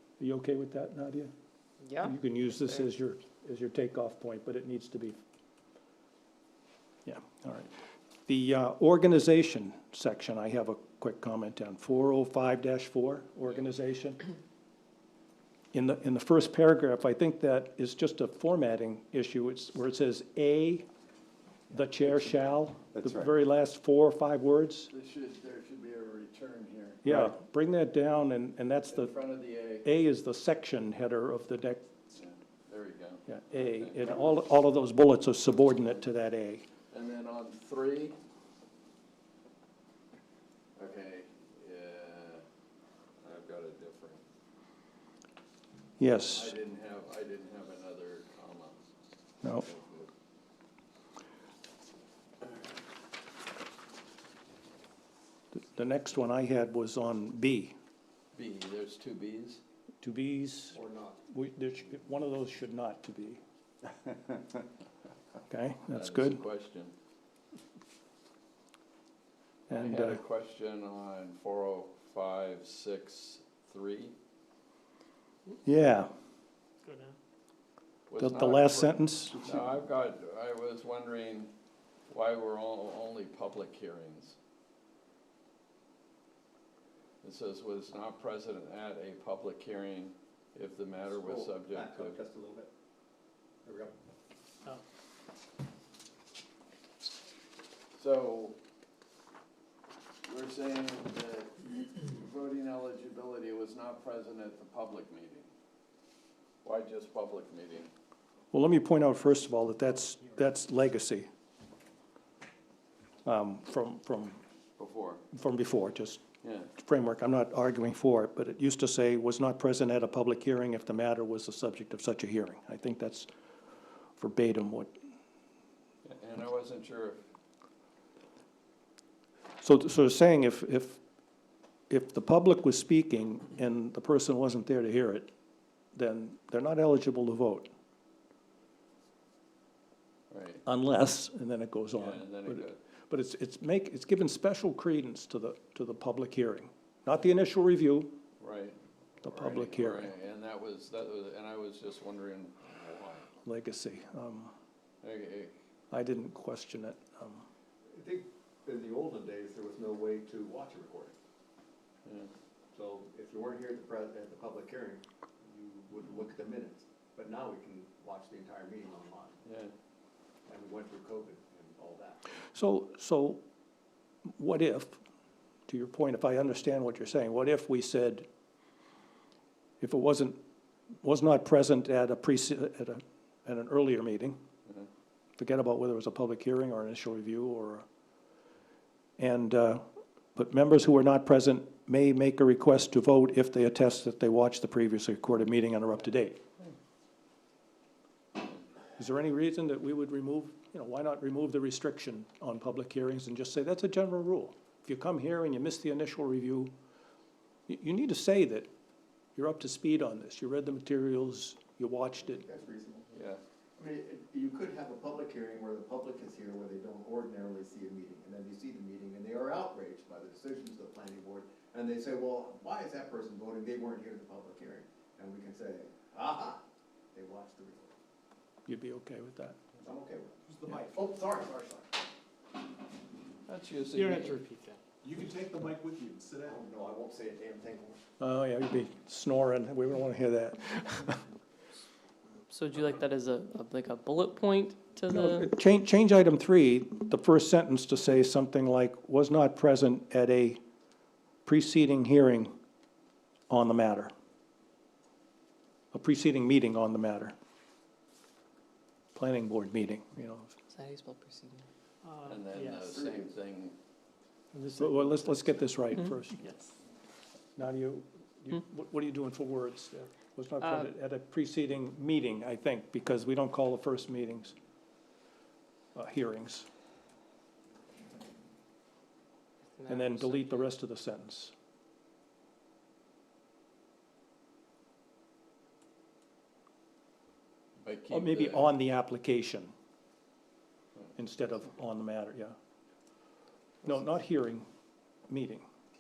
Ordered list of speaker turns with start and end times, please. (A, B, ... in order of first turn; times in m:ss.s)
0:00.2-0:01.3 A
0:01.8-0:02.1 B
0:02.0-0:05.2 A
0:07.1-0:07.7 A
0:08.3-0:14.2 A
0:15.7-0:20.9 A
0:21.7-0:24.9 A
0:24.9-0:27.1 C
0:27.0-0:29.2 A
0:28.9-0:29.9 C
0:29.8-0:31.9 A
0:32.1-0:34.1 C
0:33.3-0:36.7 A
0:36.9-0:38.2 C
0:40.8-0:42.4 C
0:43.2-0:44.2 C
0:46.0-0:46.6 A
0:46.2-0:48.8 C
0:49.5-0:50.1 C
0:55.5-0:57.8 A
0:58.4-0:59.6 C
1:00.0-1:03.4 A
1:00.7-1:01.2 D
1:05.5-1:06.4 A
1:05.9-1:06.9 C
1:09.7-1:10.2 A
1:09.7-1:14.2 C
1:15.6-1:16.1 A
1:18.1-1:21.5 C
1:18.2-1:19.4 A
1:22.1-1:24.4 C
1:27.2-1:32.2 C
1:31.2-1:32.7 D
1:33.6-1:33.9 D
1:37.9-1:38.6 C
1:40.2-1:45.5 C
1:46.6-1:47.9 C
1:48.5-1:51.3 A
1:53.2-1:54.4 A
1:54.8-1:55.2 C
1:55.3-1:56.2 A
1:56.4-1:56.7 C
1:56.8-2:03.3 A
2:04.2-2:04.9 A
2:06.0-2:07.2 C
2:09.6-2:11.0 A
2:11.9-2:15.3 A
2:16.0-2:17.7 A
2:20.3-2:20.6 C
2:20.6-2:28.2 A
2:22.0-2:22.8 C
2:28.4-2:33.3 C
2:29.2-2:30.1 A
2:33.4-2:34.5 A
2:35.0-2:35.5 C
2:35.9-2:37.5 A
2:37.9-2:41.2 D
2:42.0-2:42.3 C
2:42.7-2:49.4 D
2:49.4-2:49.7 C
2:50.5-2:52.2 D
2:52.5-2:53.4 A
2:54.4-2:55.0 A
2:55.7-2:58.3 A
2:59.8-3:00.4 A
3:01.0-3:04.4 A
3:05.4-3:07.8 A
3:09.2-3:16.4 A
3:19.0-3:26.7 A
3:27.7-3:28.7 A
3:29.4-3:32.4 A
3:32.3-3:33.1 D
3:33.1-3:33.4 C
3:33.8-3:47.9 D
3:48.7-3:49.6 A
3:49.8-3:52.0 D
3:50.5-3:50.9 E
3:53.5-3:54.4 C
3:53.9-3:54.8 F
3:55.0-3:56.6 E
3:56.4-3:58.0 D
3:58.2-4:01.2 A
4:02.5-4:05.5 B
4:05.1-4:10.6 A
4:11.5-4:12.6 A
4:13.5-4:14.1 A
4:15.9-4:17.4 A
4:19.2-4:20.5 A
4:20.7-4:21.6 B
4:22.0-4:22.9 F
4:22.2-4:23.8 C
4:24.5-4:25.6 F
4:24.7-4:26.4 A
4:26.0-4:26.7 B
4:27.6-4:34.6 A
4:30.6-4:30.9 B
4:36.0-4:36.7 A
4:39.8-4:40.6 B
4:39.9-4:41.5 A
4:47.8-4:48.7 C
4:48.1-4:49.7 A
4:51.2-4:52.6 A
4:53.8-4:54.7 A
4:55.3-4:55.6 A